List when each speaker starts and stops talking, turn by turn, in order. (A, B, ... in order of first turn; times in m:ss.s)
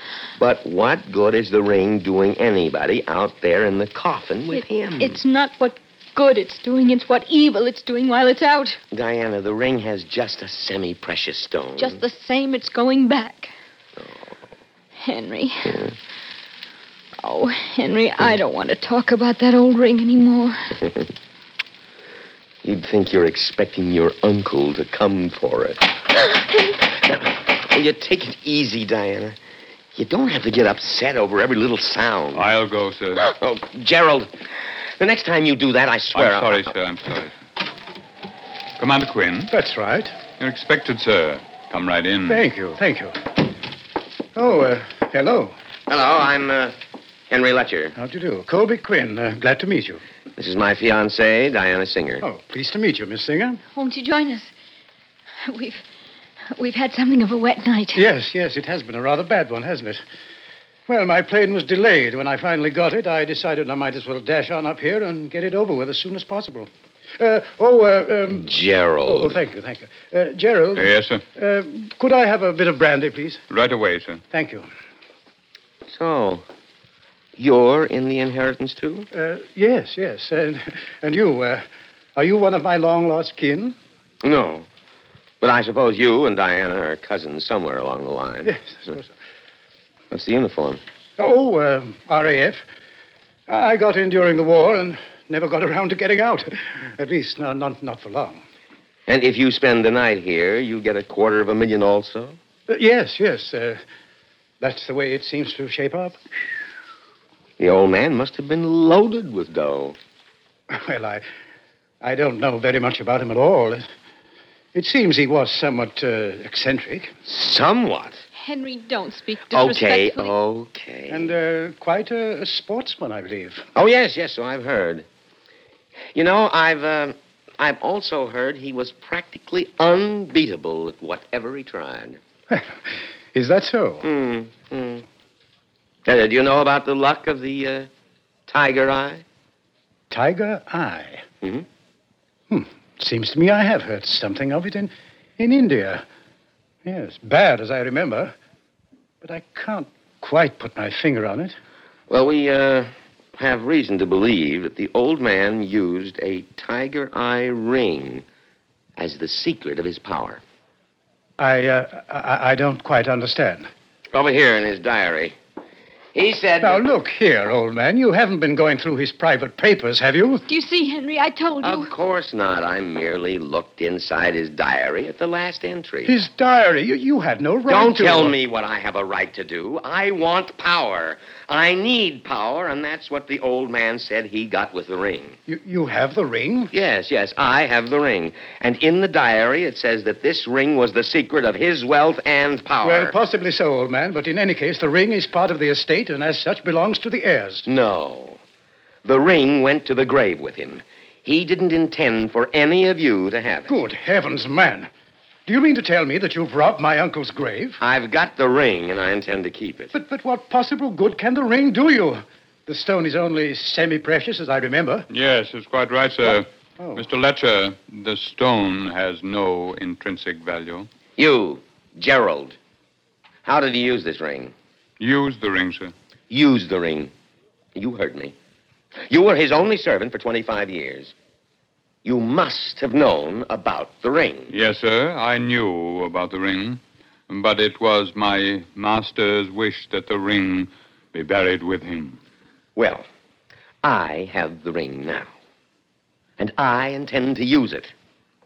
0:00.3-0:05.2 A
0:04.5-0:08.8 B
0:08.9-0:12.0 A
0:11.8-0:13.5 B
0:14.0-0:14.4 A
0:15.0-0:15.8 B
0:17.2-0:20.8 B
0:22.6-0:26.0 A
0:26.8-0:29.4 A
0:29.9-0:32.5 A
0:32.3-0:33.3 C
0:33.2-0:34.3 A
0:35.0-0:36.7 A
0:36.1-0:37.3 C
0:38.8-0:39.5 C
0:39.5-0:40.1 D
0:40.4-0:42.4 C
0:42.3-0:43.2 D
0:44.3-0:45.6 D
0:45.9-0:46.8 A
0:47.3-0:48.0 A
0:48.0-0:50.0 D
0:50.4-0:52.2 A
0:52.2-0:53.6 D
0:53.7-0:54.5 B
0:55.4-0:55.8 B
0:56.5-0:58.0 B
0:57.9-1:00.0 D
1:00.9-1:08.5 D
1:08.3-1:09.4 A
1:09.0-1:13.4 D
1:10.8-1:11.2 C
1:13.5-1:14.2 C
1:14.3-1:14.7 D
1:15.9-1:16.4 A
1:17.4-1:19.1 A
1:19.1-1:21.6 D
1:22.2-1:23.8 D
1:24.2-1:24.7 A
1:25.4-1:28.6 A
1:28.4-1:29.1 D
1:30.1-1:30.8 A
1:31.2-1:32.6 D
1:33.5-1:38.4 D
1:39.1-1:42.4 A
1:42.7-1:43.8 D
1:44.6-1:46.2 D
1:47.6-1:50.0 A
1:50.7-1:51.2 D
1:52.0-1:53.8 D
1:54.7-1:57.1 D
1:57.2-1:58.2 A
1:58.4-2:00.3 B
1:59.5-2:01.3 A
2:01.1-2:03.6 D
2:03.7-2:05.1 A
2:06.1-2:12.2 A
2:12.5-2:12.8 D
2:13.3-2:14.0 D
2:14.0-2:15.0 A
2:16.0-2:17.9 A
2:18.5-2:19.2 A
2:20.1-2:21.2 D
2:22.5-2:26.0 D
2:26.8-2:28.3 D
2:29.2-2:31.6 D
2:32.1-2:38.2 A
2:39.0-2:40.4 A
2:41.4-2:43.7 D
2:44.1-2:45.4 A
2:46.1-2:46.8 A
2:46.6-2:50.4 D
2:50.5-2:51.9 B
2:51.6-2:56.2 A
2:56.0-2:58.3 D
2:57.7-3:05.4 A
3:05.5-3:06.7 D
3:06.7-3:13.2 A
3:12.8-3:17.7 D
3:17.6-3:18.4 A
3:19.0-3:23.8 A
3:23.7-3:24.9 D
3:25.4-3:27.8 D
3:27.8-3:29.9 A
3:29.9-3:35.1 D
3:35.1-3:40.9 C
3:36.8-3:37.0 D
3:41.2-3:42.6 A
3:43.4-3:44.5 A
3:45.0-3:45.9 C
3:46.3-3:47.1 A
3:47.7-3:48.4 A
3:49.1-3:51.1 A
3:52.0-3:54.5 A
3:54.5-4:02.2 C
4:02.8-4:03.1 A
4:03.8-4:05.3 A
4:06.4-4:07.9 A